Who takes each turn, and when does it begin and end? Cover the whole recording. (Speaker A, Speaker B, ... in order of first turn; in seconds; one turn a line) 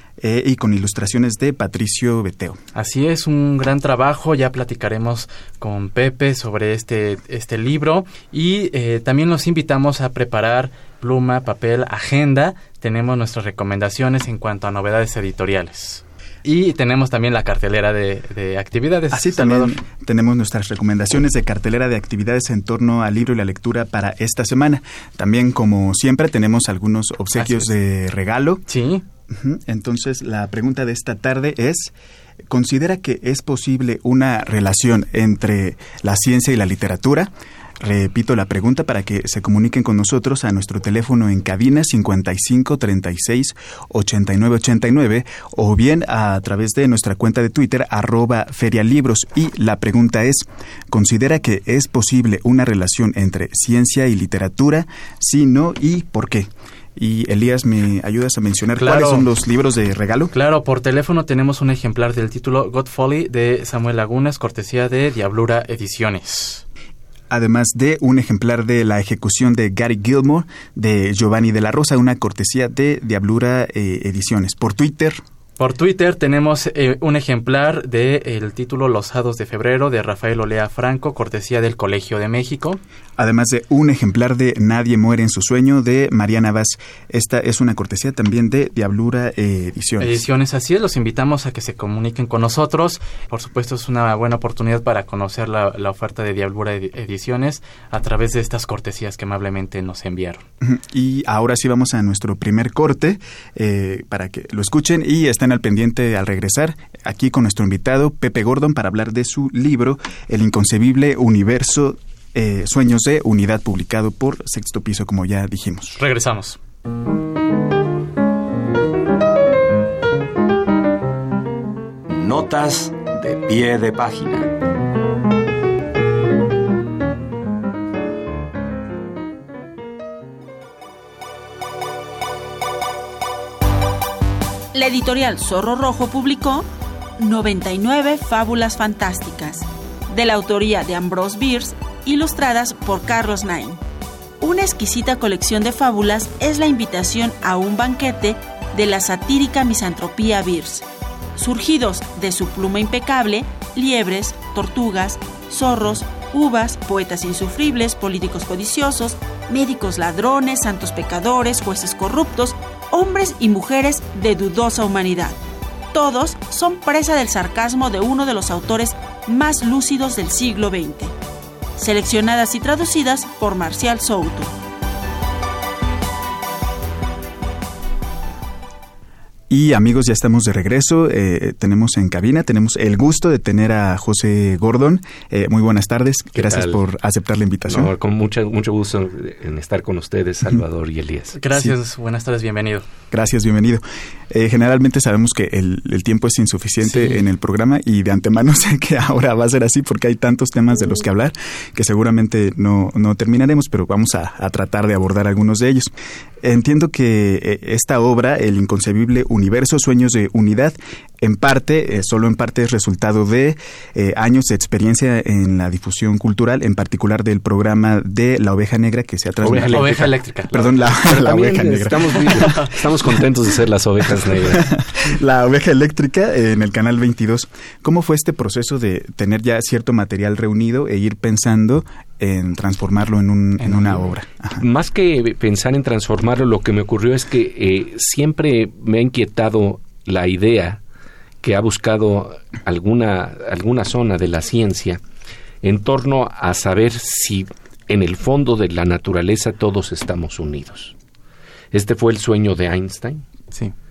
Speaker A: 0.2-2.6
Speaker B: 2.8-19.8
Speaker A: 19.1-28.6
Speaker B: 27.4-27.7
Speaker B: 28.7-29.0
Speaker A: 29.3-31.9
Speaker A: 32.5-60.3
Speaker B: 58.8-59.3
Speaker B: 60.3-66.6
Speaker A: 67.3-75.2
Speaker B: 75.6-82.8
Speaker A: 83.2-90.2
Speaker B: 90.0-100.4
Speaker A: 100.6-116.0
Speaker B: 116.0-116.6
Speaker C: 122.1-124.5
Speaker D: 134.7-136.7
Speaker D: 137.2-143.8
Speaker D: 144.4-165.4
Speaker D: 165.9-171.1
Speaker D: 171.8-174.6
Speaker A: 179.5-187.9
Speaker E: 186.3-186.8
Speaker E: 187.7-191.4
Speaker B: 191.3-192.9
Speaker A: 193.1-205.9
Speaker B: 196.8-197.2
Speaker A: 206.4-222.7
Speaker E: 219.4-220.2
Speaker B: 219.7-220.8
Speaker E: 220.9-224.7
Speaker A: 224.5-234.6
Speaker B: 233.6-234.0
Speaker E: 234.6-240.8
Speaker E: 241.4-245.0
Speaker E: 245.6-250.9
Speaker E: 251.7-253.3